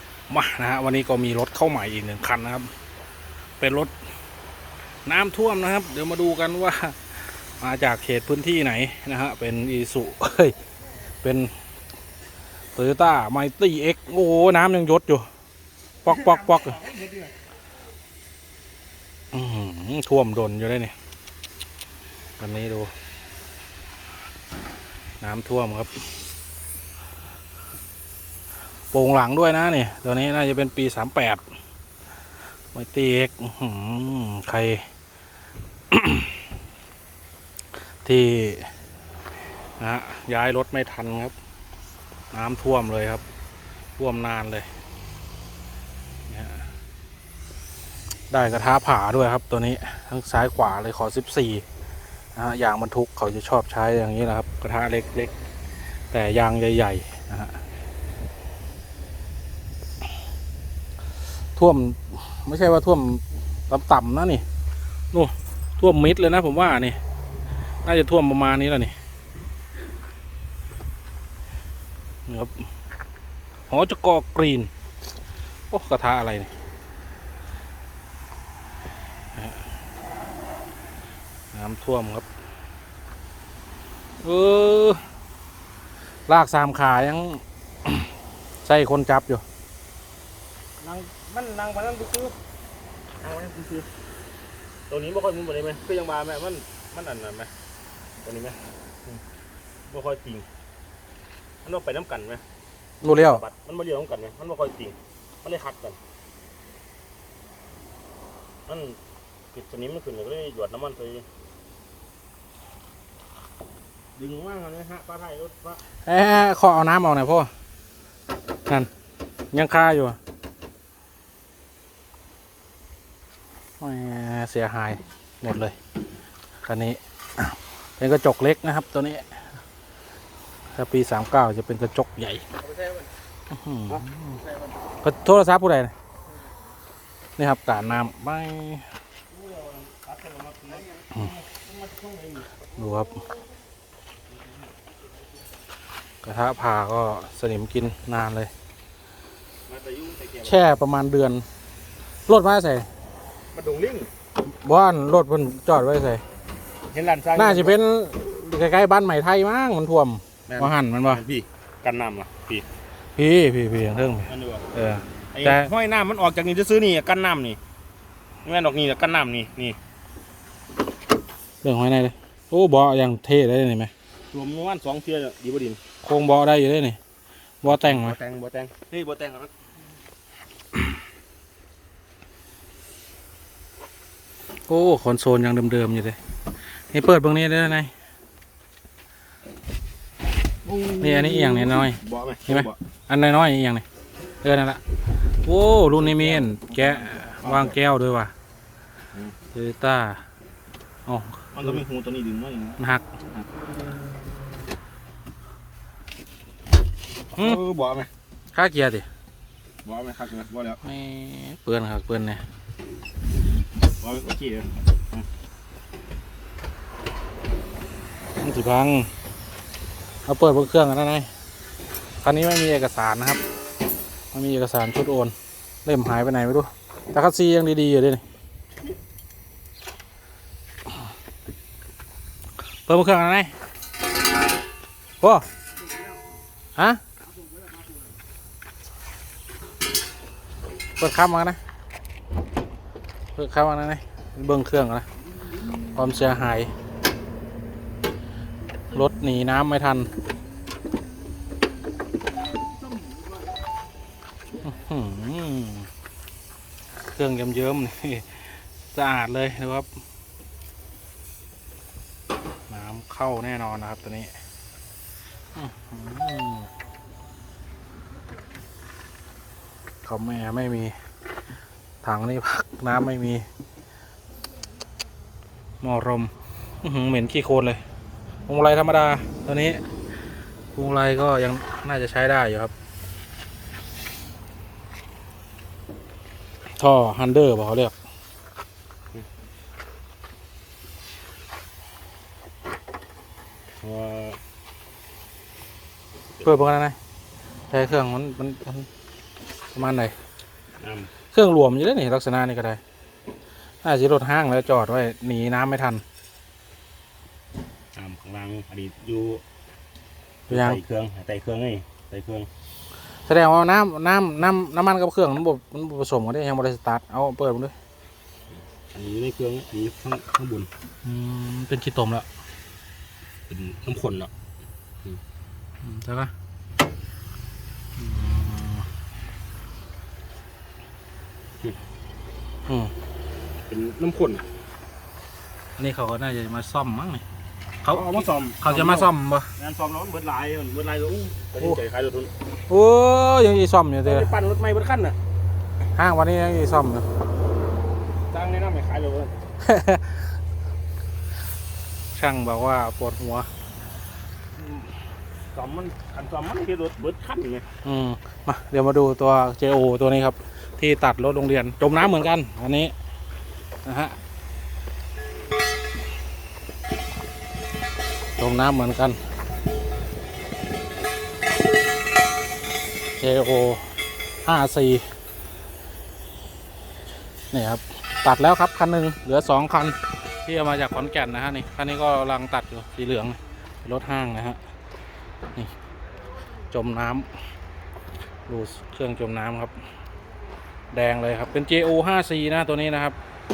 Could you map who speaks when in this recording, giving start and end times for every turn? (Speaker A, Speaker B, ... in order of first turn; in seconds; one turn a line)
Speaker A: 0.3-2.7
Speaker A: 3.6-3.9
Speaker A: 5.1-10.6
Speaker A: 11.2-11.5
Speaker A: 12.8-15.3
Speaker A: 16.0-16.9
Speaker B: 16.3-17.3
Speaker A: 19.3-20.9
Speaker A: 22.4-22.9
Speaker A: 25.2-26.0
Speaker A: 28.9-31.4
Speaker A: 32.7-34.9
Speaker A: 35.9-36.5
Speaker A: 38.0-38.7
Speaker A: 39.8-41.3
Speaker A: 42.3-43.2
Speaker A: 44.0-44.7
Speaker A: 46.3-46.7
Speaker A: 48.3-51.6
Speaker A: 52.4-55.3
Speaker A: 56.1-57.6
Speaker A: 61.6-64.4
Speaker A: 65.1-67.0
Speaker A: 67.8-68.9
Speaker A: 72.3-72.7
Speaker A: 73.7-74.7
Speaker A: 75.7-76.5
Speaker A: 79.3-79.6
Speaker A: 81.5-82.3
Speaker A: 84.2-85.0
Speaker A: 86.3-88.1
Speaker A: 88.6-89.4
Speaker B: 90.8-92.4
Speaker B: 93.2-93.9
Speaker B: 94.9-97.5
Speaker B: 98.2-99.2
Speaker B: 99.9-100.5
Speaker B: 101.6-102.4
Speaker A: 103.0-103.4
Speaker B: 103.0-106.0
Speaker B: 108.7-109.0
Speaker B: 109.5-111.3
Speaker B: 114.2-115.8
Speaker A: 116.0-117.5
Speaker A: 119.5-120.2
Speaker A: 123.8-125.8
Speaker A: 126.6-129.4
Speaker A: 130.7-132.5
Speaker A: 133.5-134.4
Speaker A: 135.0-135.9
Speaker A: 137.4-138.9
Speaker B: 139.3-142.5
Speaker A: 142.8-143.2
Speaker A: 146.2-148.5
Speaker B: 149.7-150.8
Speaker A: 150.5-151.5
Speaker A: 152.3-152.9
Speaker B: 153.5-154.1
Speaker A: 154.5-156.2
Speaker B: 156.9-157.8
Speaker A: 157.3-161.2
Speaker B: 160.5-162.7
Speaker A: 163.2-165.7
Speaker B: 164.3-164.7
Speaker B: 165.3-167.6
Speaker B: 168.4-169.8
Speaker A: 171.6-173.9
Speaker B: 174.3-175.8
Speaker A: 176.0-177.0
Speaker A: 177.6-178.2
Speaker B: 177.7-179.5
Speaker A: 184.7-186.2
Speaker A: 186.9-187.9
Speaker B: 190.7-192.8
Speaker A: 191.0-193.8
Speaker A: 194.4-194.8
Speaker A: 195.4-198.3
Speaker B: 196.0-197.8
Speaker A: 199.5-200.2
Speaker A: 201.1-201.8
Speaker B: 201.5-202.8
Speaker A: 202.8-203.2
Speaker B: 207.3-208.1
Speaker A: 208.5-209.1
Speaker B: 209.8-210.8
Speaker A: 210.8-212.4
Speaker B: 214.0-215.3
Speaker A: 218.4-219.1
Speaker A: 220.3-221.3
Speaker A: 222.2-223.4
Speaker A: 224.3-225.3
Speaker A: 225.8-228.2
Speaker A: 232.9-233.5
Speaker A: 235.2-235.5
Speaker A: 236.8-237.0
Speaker A: 241.0-241.6
Speaker A: 243.3-245.1
Speaker A: 245.9-246.7
Speaker A: 248.9-250.1
Speaker A: 254.6-255.9
Speaker A: 257.1-259.9
Speaker A: 262.7-264.3
Speaker A: 265.6-266.7
Speaker A: 270.0-270.9
Speaker A: 272.0-273.5
Speaker A: 275.8-277.8
Speaker A: 278.5-279.8
Speaker A: 280.7-282.7
Speaker A: 286.8-287.9
Speaker B: 293.8-294.4
Speaker A: 296.4-297.0
Speaker A: 297.7-298.9
Speaker A: 299.7-300.2
Speaker B: 300.8-301.1
Speaker A: 301.3-302.8
Speaker A: 303.8-306.0
Speaker B: 308.0-309.4
Speaker B: 310.5-312.5
Speaker A: 310.5-310.8
Speaker A: 313.3-317.7
Speaker B: 318.9-320.7
Speaker A: 321.0-322.3
Speaker B: 323.5-324.3
Speaker A: 325.8-326.3
Speaker A: 328.0-328.9
Speaker A: 332.7-332.9
Speaker B: 333.7-334.5
Speaker A: 335.8-337.2
Speaker A: 337.8-339.5
Speaker B: 337.9-342.3
Speaker A: 342.7-344.3
Speaker B: 344.0-345.2
Speaker A: 345.9-347.1
Speaker B: 348.3-349.3
Speaker A: 349.6-350.3
Speaker A: 352.1-353.5
Speaker B: 355.5-357.7
Speaker A: 357.8-362.9
Speaker A: 363.8-364.2
Speaker A: 368.4-369.2
Speaker A: 373.2-373.9
Speaker A: 374.4-375.1
Speaker A: 377.5-384.6
Speaker A: 386.7-387.3
Speaker A: 388.5-389.8
Speaker A: 390.9-393.2